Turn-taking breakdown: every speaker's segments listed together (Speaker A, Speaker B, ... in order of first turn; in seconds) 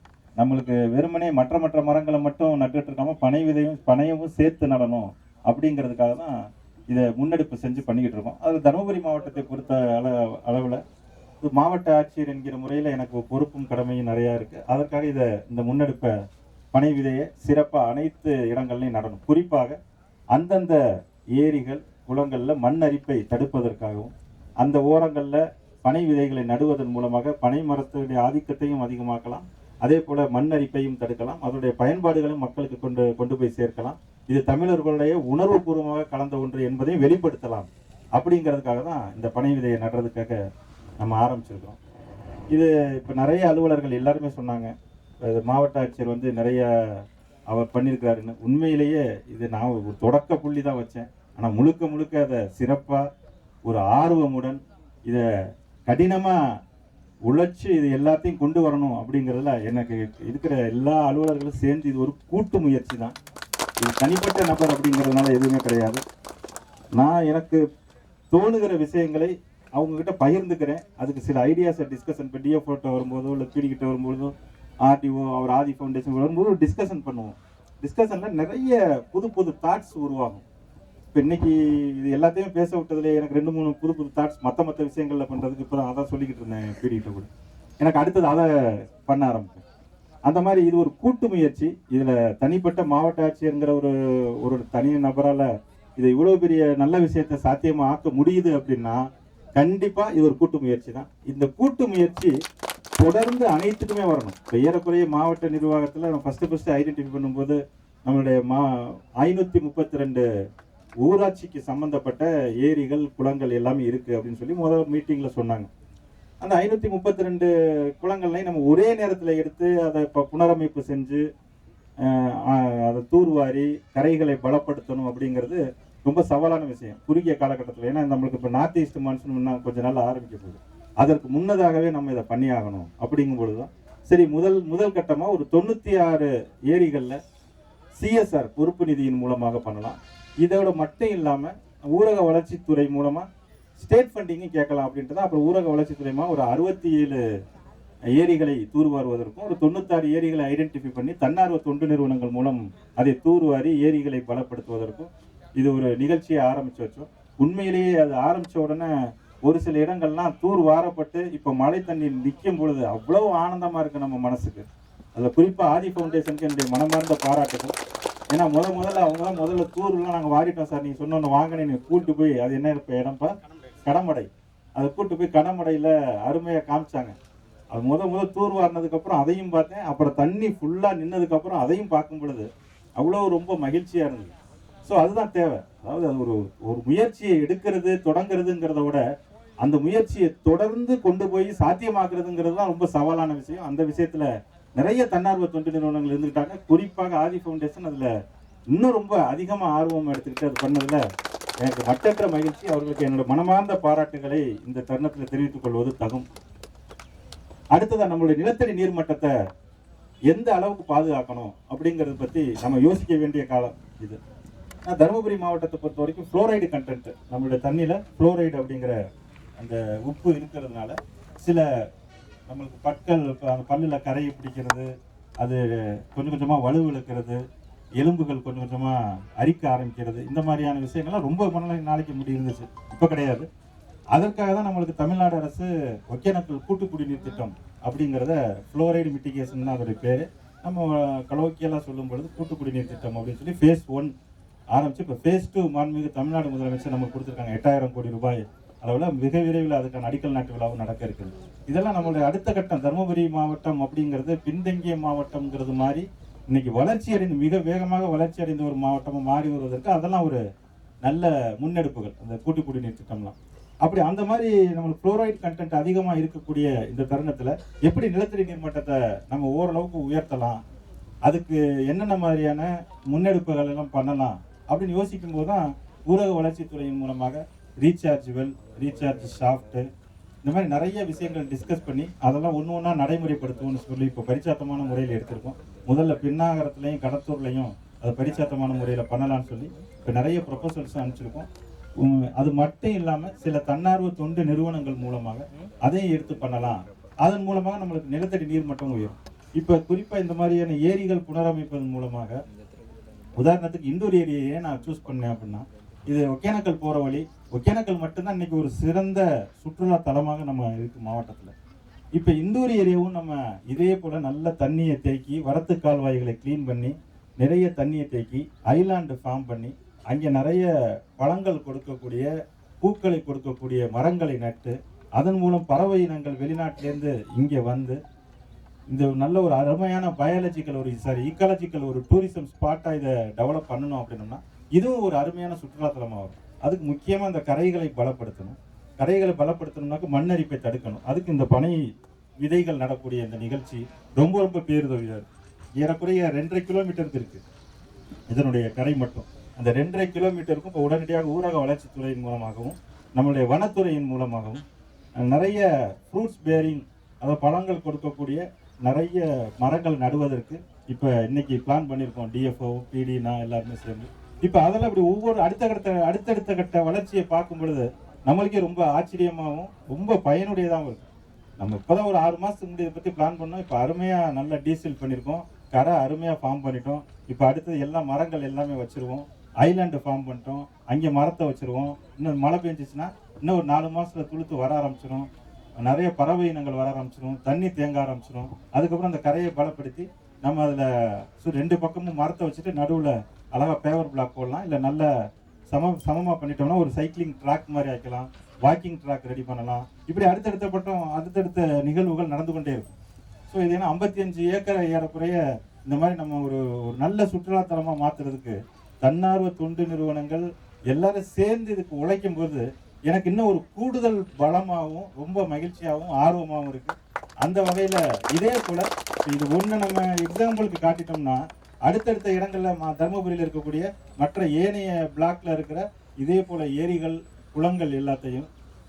Speaker A: 0.4-6.3, 6.9-10.8, 11.4-16.1, 16.7-19.8, 20.3-20.8, 21.4-40.4, 41.0-41.8, 42.5-44.7, 45.2-53.1, 53.7-55.2, 55.9-56.4, 57.3-63.1, 63.8-66.0, 67.0-67.6, 68.3-74.3, 74.8-80.4, 81.1-87.3, 87.8-89.6, 90.2-99.0, 99.5-102.3, 103.0-110.2, 111.0-115.7, 116.4-121.2, 122.0-137.2, 138.0-147.2, 148.1-158.9, 159.4-167.8, 168.3-177.2, 177.7-184.3, 184.8-189.0, 189.6-198.1, 198.7-201.0, 201.6-206.2, 207.7-209.3, 210.3-214.2, 214.8-218.9, 219.6-221.6, 222.5-227.4, 228.0-233.5, 234.1-244.1, 244.7-260.4, 261.0-270.6, 271.2-279.9, 280.4-291.5, 292.0-302.4, 303.4-311.5, 312.1-322.3, 322.8-328.0, 328.9-341.8, 342.4-345.3, 345.8-347.4, 348.3-354.6, 355.2-371.1, 371.6-385.3, 385.8-395.1, 395.7-402.9, 403.5-428.5